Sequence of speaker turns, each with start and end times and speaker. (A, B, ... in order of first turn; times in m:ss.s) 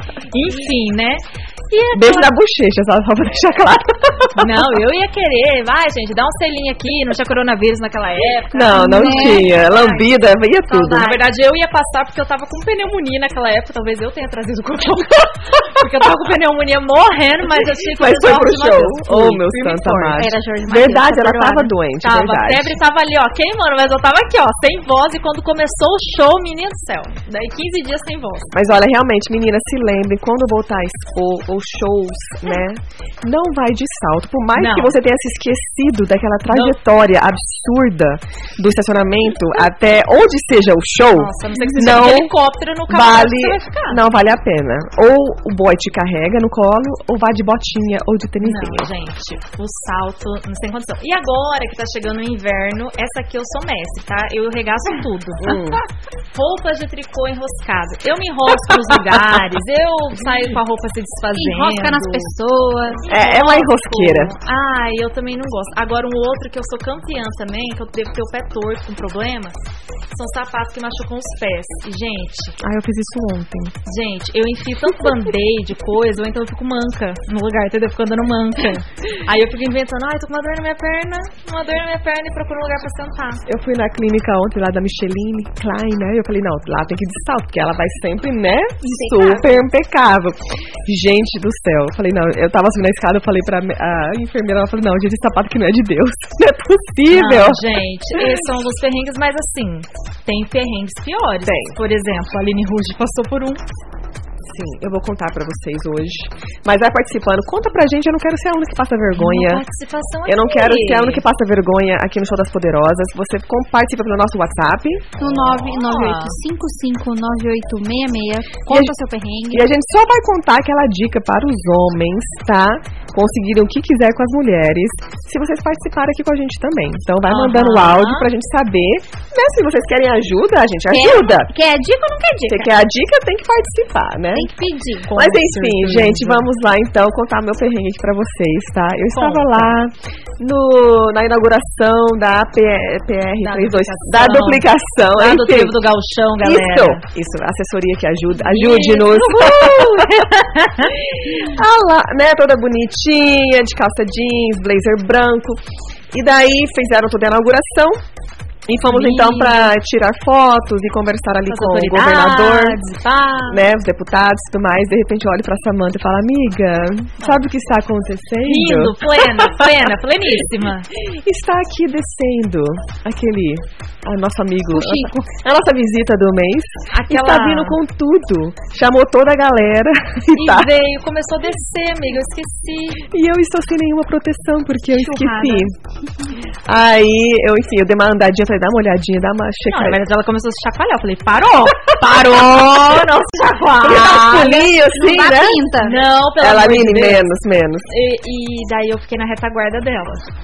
0:00.3-0:02.3 A
0:01.9-0:04.8 B
0:04.4-0:10.0 A
0:08.5-0:11.1 B
0:08.7-0:09.6 C
0:10.7-0:11.2 C
0:11.0-0:20.2 A
0:17.8-0:22.8 B
0:20.2-0:21.7 C
0:22.0-0:28.5 A
0:28.5-0:42.3 B
0:34.6-0:35.0 A
0:36.5-0:36.8 A
0:41.1-0:44.0 A
0:41.6-0:41.8 C
0:42.9-0:48.9 B
0:48.4-0:55.5 A
0:55.4-0:55.8 B
0:56.3-1:02.3 A
1:01.4-1:03.0 C
1:03.0-1:09.6 A
1:03.1-1:04.3 B
1:10.1-1:12.6 A
1:12.6-1:13.8 B
1:13.9-1:23.4 A
1:23.5-1:37.7 B
1:29.0-1:29.5 C
1:37.1-1:43.6 A
1:41.4-1:41.8 B
1:44.5-1:49.6 B
1:49.2-1:51.2 A
1:50.3-1:55.2 B
1:55.2-1:59.7 C
1:55.2-1:56.4 A
1:58.7-1:58.9 B
1:59.5-2:11.5 B
2:07.3-2:08.3 A
2:10.9-2:12.7 C
2:12.5-2:14.5 B
2:14.4-2:15.1 C
2:15.0-2:16.5 A
2:15.1-2:25.8 B
2:19.1-2:19.7 A
2:23.4-2:27.0 A
2:26.4-2:30.3 B
2:28.4-2:31.0 A
2:31.1-2:38.0 B
2:38.7-2:42.8 B
2:38.9-2:39.7 A
2:41.5-2:43.6 A
2:43.5-2:49.7 B
2:48.4-2:50.9 A
2:51.0-3:00.7 B
2:54.7-2:55.2 C
2:56.9-2:57.8 A
3:00.4-3:03.0 A
3:03.1-3:05.7 B
3:05.0-3:05.7 C
3:06.7-3:10.0 B
3:09.7-3:14.7 A
3:11.9-3:13.0 B
3:13.8-3:15.7 B
3:14.3-3:16.0 C
3:15.8-3:17.3 A
3:16.4-3:17.9 B
3:17.9-3:20.3 A